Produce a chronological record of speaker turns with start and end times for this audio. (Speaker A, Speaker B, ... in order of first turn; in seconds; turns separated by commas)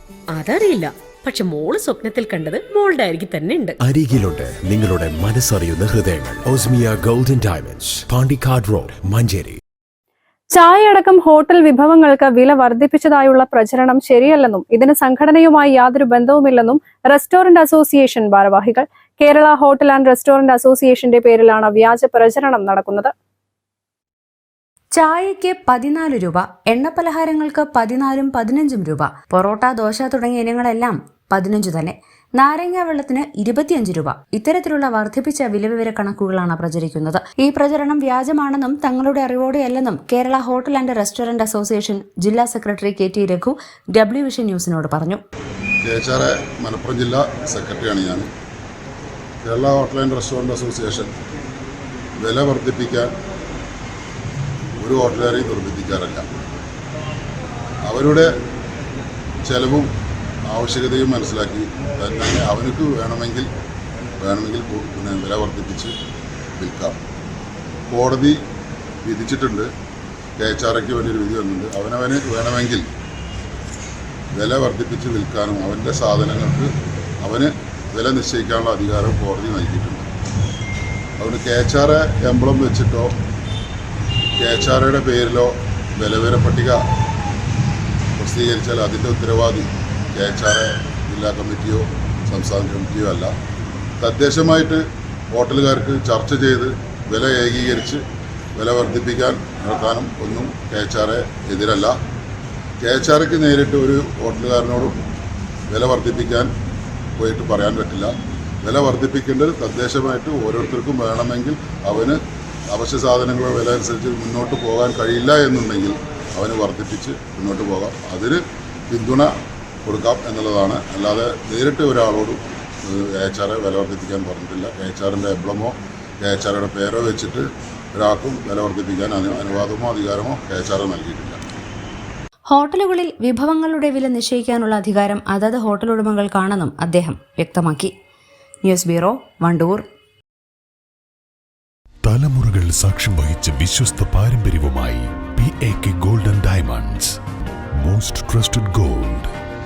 Speaker A: 0.3-3.7, Speaker B: 3.9-9.6, Speaker C: 10.5-23.1, Speaker D: 24.9-45.2, Speaker E: 45.8-48.3, Speaker E: 49.4-51.1, Speaker E: 52.2-53.1, Speaker E: 54.8-56.3, Speaker E: 57.9-58.3, Speaker E: 59.4-59.9, Speaker E: 60.5-63.5, Speaker E: 64.2-65.9, Speaker E: 66.6-67.0, Speaker E: 67.9-68.4, Speaker E: 69.0-69.7, Speaker E: 70.4-72.8, Speaker E: 74.3-76.7, Speaker E: 77.2-80.0, Speaker E: 81.2-83.1, Speaker E: 84.4-86.8, Speaker E: 88.2-93.3, Speaker E: 94.0-98.0, Speaker E: 98.5-101.9, Speaker E: 102.8-104.9, Speaker E: 105.7-106.5, Speaker E: 107.2-112.2, Speaker E: 112.7-119.3, Speaker E: 119.8-131.4, Speaker D: 132.5-137.9, Speaker D: 138.6-139.8, Speaker F: 142.0-147.1, Speaker F: 147.8-149.3